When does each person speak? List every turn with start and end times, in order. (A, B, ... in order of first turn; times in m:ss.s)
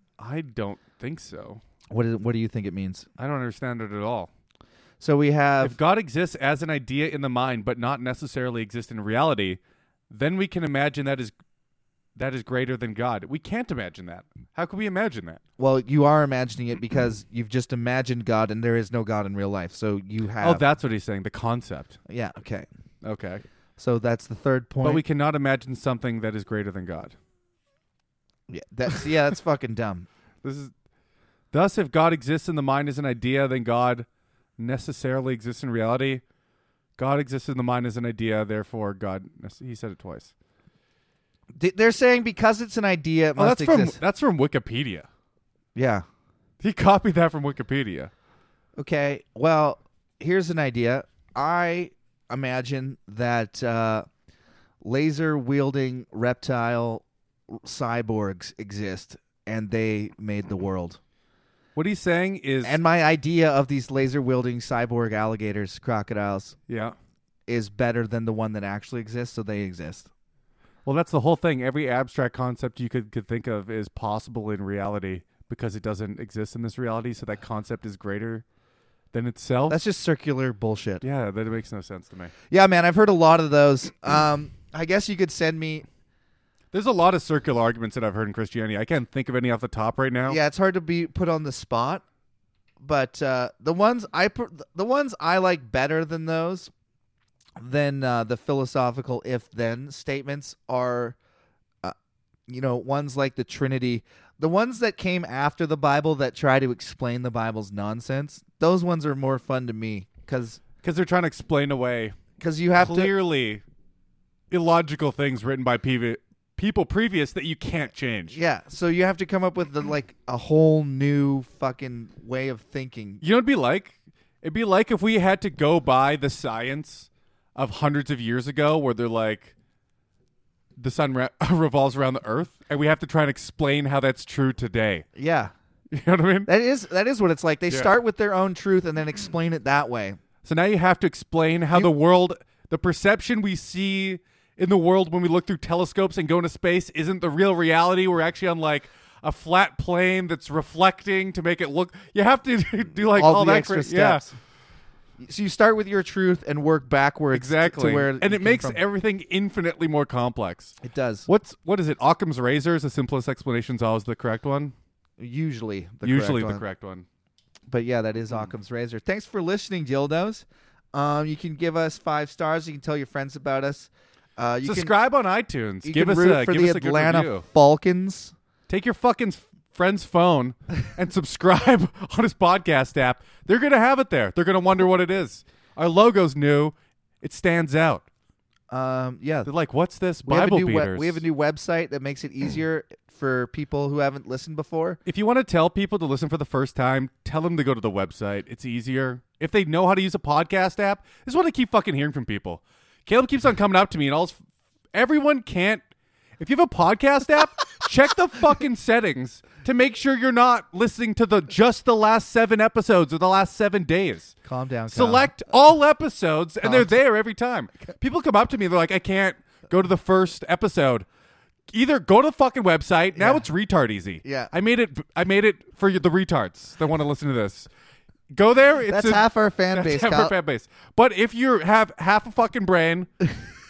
0:00.2-0:01.6 A
0:01.9-0:03.1 B
0:03.2-0:04.3 A
0:05.0-0:05.8 B
0:05.6-0:09.6 A
0:10.1-0:11.3 A
0:12.2-0:15.4 A
0:15.6-0:20.6 B
0:20.4-0:22.0 A
0:22.1-0:22.7 B
0:23.0-0:23.4 A
0:23.8-0:25.0 B
0:24.8-0:27.2 A
0:28.5-0:30.1 B
0:30.4-0:30.7 A
0:31.5-0:34.1 A
0:34.6-0:36.2 A
0:37.0-0:40.3 A
0:41.6-0:44.0 B
0:43.4-0:45.1 A
0:45.8-0:46.0 B
0:46.6-0:48.1 A
0:48.8-0:54.1 B
0:54.8-1:01.0 B
1:01.8-1:02.8 A
1:02.6-1:06.6 B
1:06.7-1:07.0 A
1:07.5-1:10.1 B
1:10.8-1:18.4 A
1:19.1-1:19.8 A
1:19.7-1:21.0 B
1:21.0-1:22.3 A
1:22.5-1:25.9 B
1:26.7-1:30.4 A
1:30.3-1:32.0 B
1:32.8-1:36.7 B
1:37.6-1:41.2 B
1:42.5-1:50.6 B
1:50.8-1:52.2 A
1:52.4-1:53.1 B
1:52.8-1:53.6 A
1:54.5-1:58.4 A
1:58.3-2:03.2 B
2:03.2-2:09.5 A
2:10.8-2:15.1 A
2:15.2-2:15.5 B
2:15.9-2:16.5 A
2:16.5-2:20.2 B
2:20.4-2:34.2 A
2:33.2-2:34.3 B
2:35.2-2:38.8 B
2:37.3-2:44.7 A
2:40.8-2:41.3 B
2:45.2-2:46.6 B
2:46.0-2:47.1 A
2:47.7-2:54.9 B
2:54.6-2:57.5 A
2:55.8-2:58.3 B
2:58.7-3:08.0 A
3:08.7-3:09.5 B
3:09.4-3:11.2 A
3:10.2-3:15.0 B
3:15.1-3:24.4 A
3:24.9-3:25.8 A
3:26.4-3:34.3 A
3:34.4-3:35.3 B
3:34.9-3:41.1 A
3:36.6-3:36.9 B
3:41.7-3:47.7 A
3:43.2-3:43.4 B
3:44.2-3:44.5 B
3:48.3-3:53.1 A
3:48.9-3:50.3 B